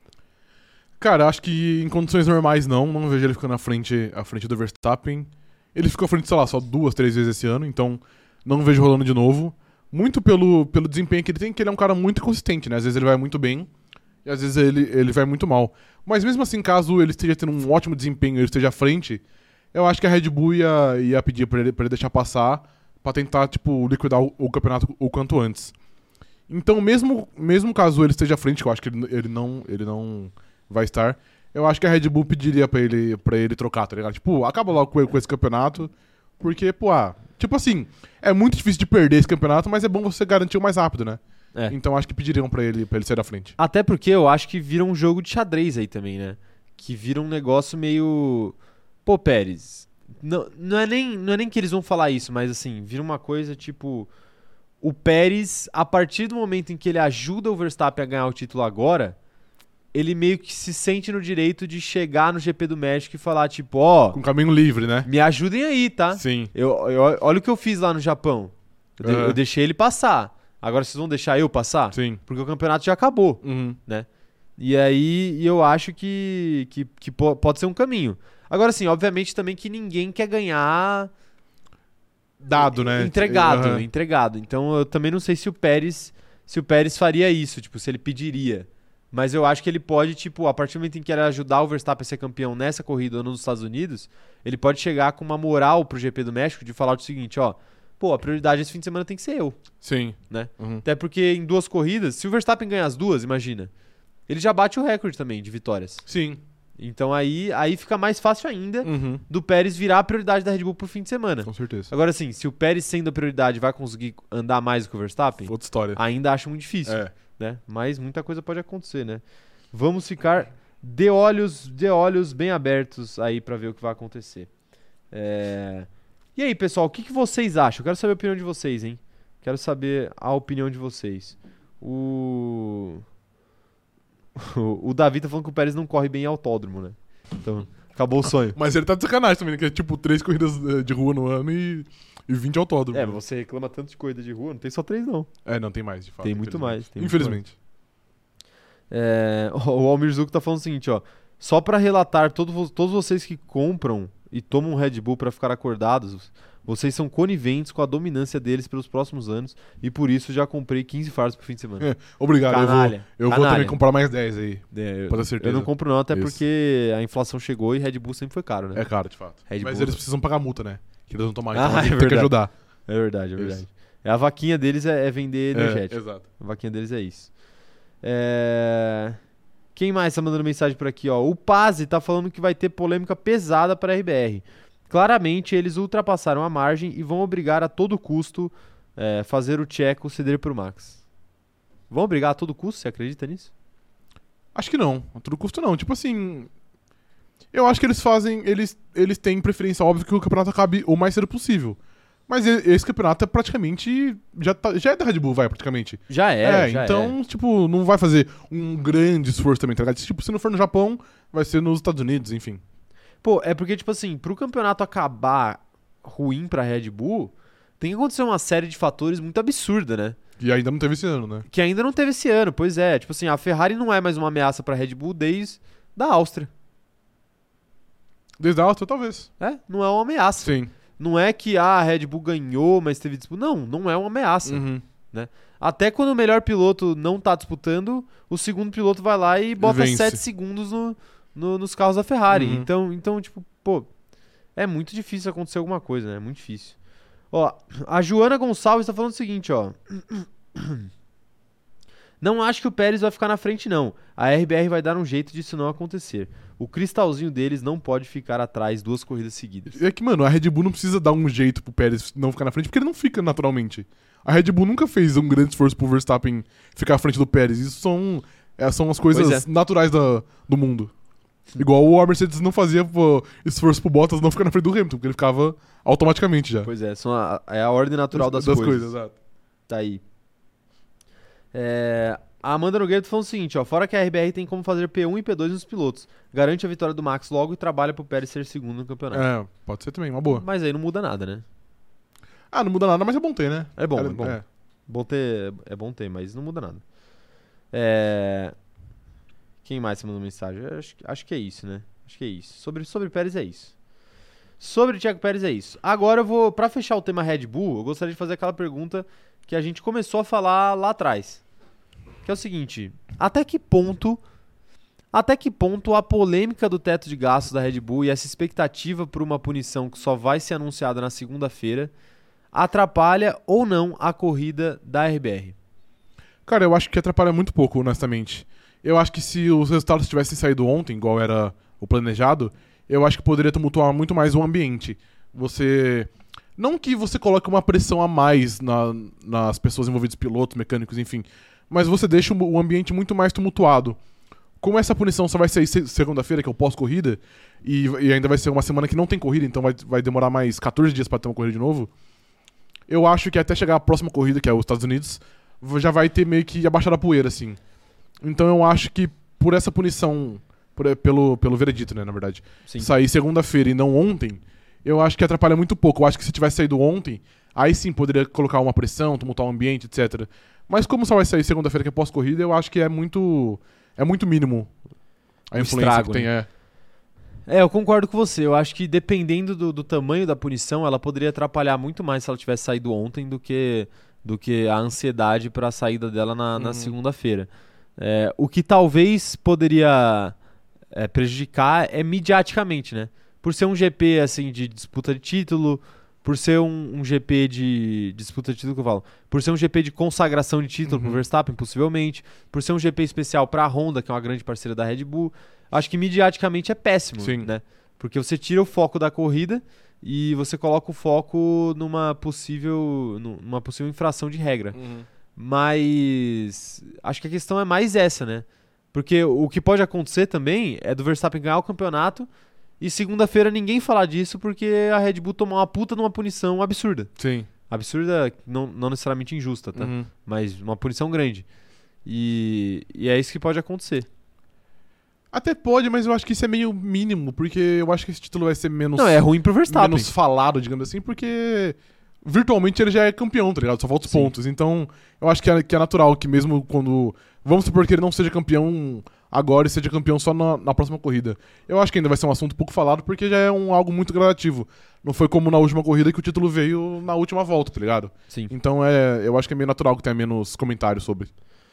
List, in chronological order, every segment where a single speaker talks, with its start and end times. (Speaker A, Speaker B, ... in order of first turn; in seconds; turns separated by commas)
Speaker A: 1.0-13.7, Speaker A: 14.2-19.2, Speaker A: 19.7-25.7, Speaker A: 26.5-43.5, Speaker B: 43.6-54.1, Speaker B: 54.8-59.1, Speaker B: 59.9-64.2, Speaker A: 64.1-65.1, Speaker B: 65.0-74.1, Speaker A: 66.1-66.5, Speaker A: 69.0-69.4, Speaker A: 71.9-72.2, Speaker A: 73.4-73.8, Speaker B: 74.6-81.1, Speaker A: 82.4-83.8, Speaker B: 82.5-99.6, Speaker A: 99.8-100.8, Speaker B: 100.3-103.7, Speaker B: 104.3-106.0, Speaker A: 106.0-106.4, Speaker B: 106.8-124.5, Speaker A: 108.8-109.2, Speaker A: 111.5-111.9, Speaker A: 115.5-116.0, Speaker A: 116.8-117.1, Speaker B: 125.1-133.0, Speaker B: 134.3-138.6, Speaker A: 138.5-143.2, Speaker B: 142.9-145.3, Speaker A: 145.4-147.5, Speaker B: 146.2-147.4, Speaker B: 148.9-161.9, Speaker A: 161.8-166.4, Speaker B: 162.5-163.8, Speaker B: 164.7-168.8, Speaker A: 168.7-172.5, Speaker B: 169.5-170.0, Speaker B: 171.5-172.3, Speaker B: 172.9-177.3, Speaker A: 175.5-176.2, Speaker B: 178.0-179.2, Speaker B: 179.7-191.0, Speaker B: 191.9-193.5, Speaker A: 194.5-196.5, Speaker A: 197.5-212.6, Speaker B: 206.1-207.2, Speaker B: 213.2-220.2, Speaker A: 220.4-221.4, Speaker B: 221.5-226.5, Speaker A: 228.4-229.3, Speaker B: 229.4-243.9, Speaker A: 230.4-230.7, Speaker A: 234.4-234.8, Speaker A: 239.6-240.2, Speaker A: 242.3-242.7, Speaker B: 244.6-246.8, Speaker B: 247.3-250.9, Speaker B: 252.2-259.8, Speaker A: 259.7-270.9, Speaker B: 269.1-269.4, Speaker A: 271.6-276.7, Speaker B: 276.6-278.9, Speaker A: 278.1-279.1, Speaker B: 279.7-280.0, Speaker B: 281.5-289.3, Speaker A: 289.1-290.4, Speaker B: 290.3-291.4, Speaker A: 292.5-294.4, Speaker B: 293.8-296.8, Speaker B: 297.7-298.5, Speaker B: 299.6-303.7, Speaker B: 304.6-311.4, Speaker B: 312.2-314.2, Speaker B: 315.1-321.9, Speaker B: 322.5-325.6, Speaker A: 326.4-344.0, Speaker A: 344.6-351.9, Speaker A: 352.9-357.6, Speaker A: 358.2-374.7, Speaker A: 375.5-376.5, Speaker B: 375.6-376.3, Speaker B: 377.5-390.3, Speaker A: 386.6-386.9, Speaker B: 390.9-414.8, Speaker A: 400.9-401.2, Speaker A: 407.2-407.5, Speaker A: 414.7-415.1, Speaker B: 415.4-422.3, Speaker B: 422.8-427.1, Speaker A: 427.2-427.5, Speaker B: 427.7-431.4, Speaker A: 429.7-430.1, Speaker B: 432.0-434.1, Speaker A: 435.3-461.3, Speaker B: 438.9-440.1